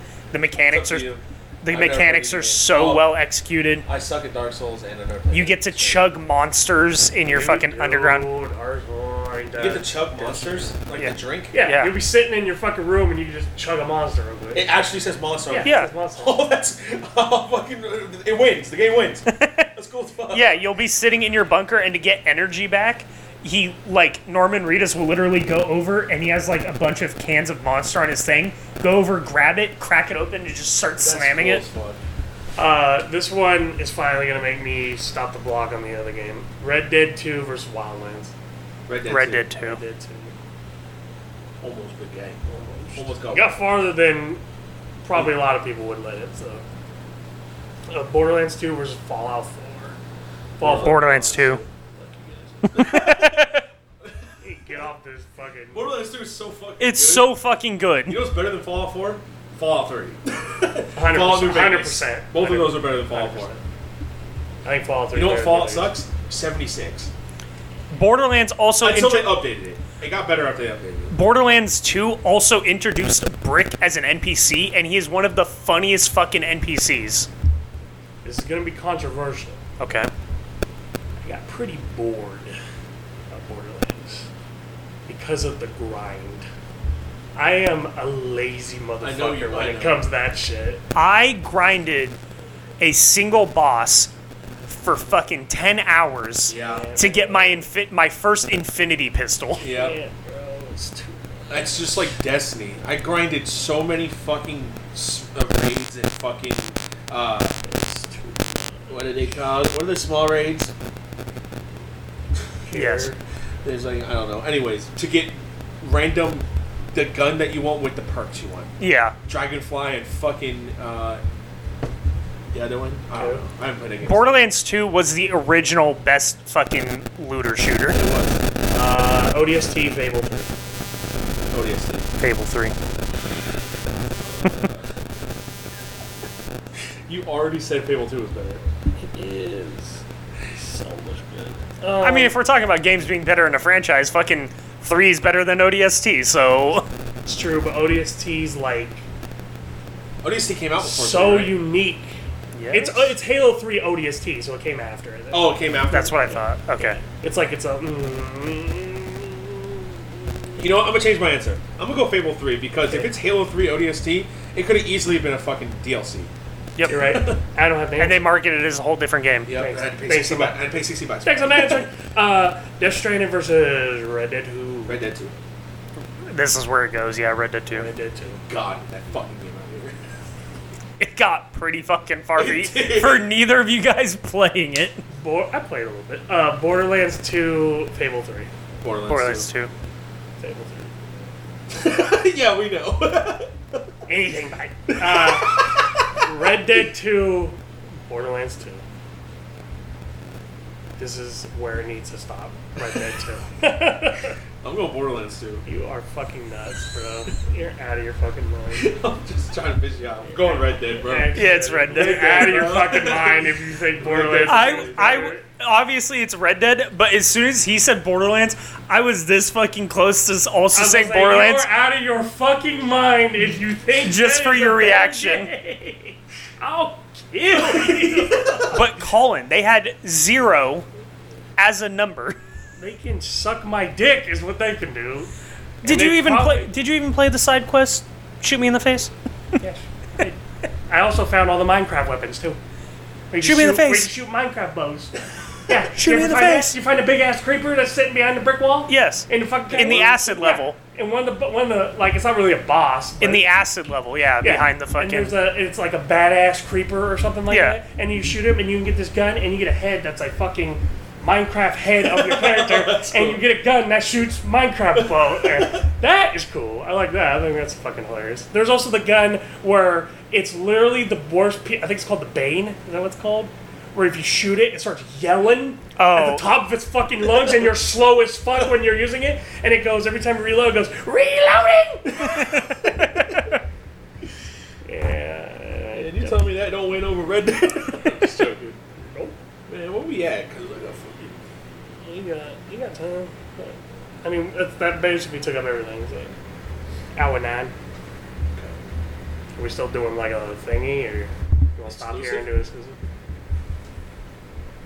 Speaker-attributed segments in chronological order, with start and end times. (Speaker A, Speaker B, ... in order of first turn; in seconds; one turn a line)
Speaker A: 0.3-1.1
Speaker B: 0.7-3.1
Speaker A: 1.6-3.9
Speaker B: 3.8-6.1
Speaker A: 5.3-8.3
Speaker C: 7.3-10.7
Speaker B: 9.6-11.6
Speaker A: 11.0-12.0
Speaker C: 11.5-14.7
Speaker B: 14.5-20.5
Speaker C: 15.5-16.4
Speaker A: 15.6-15.9
Speaker A: 19.3-19.7
Speaker A: 20.3-31.6
Speaker B: 31.0-32.0
Speaker C: 32.6-38.3
Speaker B: 38.9-39.5
Speaker A: 39.1-39.8
Speaker C: 39.6-40.3
Speaker B: 41.6-43.6
Speaker C: 42.5-44.4
Speaker C: 45.0-46.6
Speaker C: 47.9-50.0
Speaker C: 50.6-52.9
Speaker B: 50.6-51.6
Speaker A: 50.6-51.6
Speaker B: 52.7-53.5
Speaker A: 52.7-53.6
Speaker C: 54.4-55.9
Speaker B: 55.7-57.3
Speaker A: 56.8-58.2
Speaker B: 58.1-63.5
Speaker C: 60.9-63.6
Speaker C: 64.6-66.0
Speaker B: 65.1-67.1
Speaker A: 67.9-69.4
Speaker B: 68.8-71.2
Speaker A: 71.1-77.3
Speaker C: 78.2-79.6
Speaker A: 79.8-80.1
Speaker C: 81.2-82.6
Speaker C: 83.3-84.3
Speaker C: 85.1-86.5
Speaker C: 87.3-90.8
Speaker B: 89.0-90.0
Speaker A: 91.0-92.2
Speaker A: 92.8-94.1
Speaker A: 94.7-99.7
Speaker B: 96.5-96.9
Speaker C: 96.6-97.7
Speaker B: 99.6-100.0
Speaker C: 99.6-101.9
Speaker B: 101.5-107.5
Speaker C: 107.6-109.2
Speaker B: 108.9-110.7
Speaker C: 112.7-113.2
Speaker A: 112.7-113.1
Speaker B: 113.6-118.7
Speaker A: 118.8-119.1
Speaker B: 119.3-121.2
Speaker B: 122.5-124.4
Speaker C: 123.2-123.4
Speaker A: 124.0-128.0
Speaker B: 127.9-128.4
Speaker C: 128.7-130.8
Speaker B: 131.5-132.1
Speaker A: 132.2-132.7
Speaker B: 134.2-135.0
Speaker B: 137.1-138.6
Speaker C: 139.0-142.3
Speaker A: 142.0-146.8
Speaker C: 147.2-149.0
Speaker B: 150.2-151.6
Speaker C: 150.8-159.9
Speaker A: 152.5-153.1
Speaker B: 155.3-156.4
Speaker A: 155.9-157.0
Speaker B: 160.6-166.3
Speaker A: 166.8-167.2
Speaker B: 166.8-167.4
Speaker C: 166.9-168.3
Speaker A: 168.0-169.5
Speaker B: 169.4-171.8
Speaker C: 169.6-170.6
Speaker C: 171.2-175.0
Speaker B: 174.9-175.3
Speaker A: 176.2-177.9
Speaker C: 177.7-178.4
Speaker B: 178.5-180.0
Speaker A: 181.0-185.0
Speaker B: 182.3-183.3
Speaker C: 185.1-188.5
Speaker B: 188.8-189.5
Speaker A: 189.1-189.7
Speaker C: 190.4-190.9
Speaker B: 191.7-193.8
Speaker C: 194.1-198.8
Speaker B: 195.0-196.2
Speaker C: 201.0-204.3
Speaker B: 204.6-205.6
Speaker C: 205.7-208.9
Speaker B: 208.7-215.2
Speaker C: 210.3-215.4
Speaker A: 211.3-213.2
Speaker A: 214.4-221.7
Speaker C: 220.7-228.9
Speaker A: 224.0-225.5
Speaker B: 227.8-228.6
Speaker A: 228.6-230.8
Speaker A: 231.6-232.4
Speaker C: 232.8-235.3
Speaker A: 235.8-239.1
Speaker C: 235.8-236.7
Speaker C: 239.6-242.6
Speaker C: 243.3-253.4
Speaker A: 243.4-244.1
Speaker A: 245.9-246.8
Speaker A: 248.9-250.8
Speaker A: 253.2-255.3
Speaker C: 254.4-282.6
Speaker A: 257.5-257.8
Speaker B: 262.0-263.4
Speaker B: 265.0-265.8
Speaker A: 276.0-276.5
Speaker B: 282.2-282.9
Speaker C: 284.9-286.5
Speaker B: 285.9-288.8
Speaker C: 289.0-289.4
Speaker B: 289.7-291.4
Speaker C: 292.0-296.3
Speaker C: 297.1-297.7
Speaker B: 298.5-298.8
Speaker C: 299.6-303.0
Speaker B: 301.9-302.5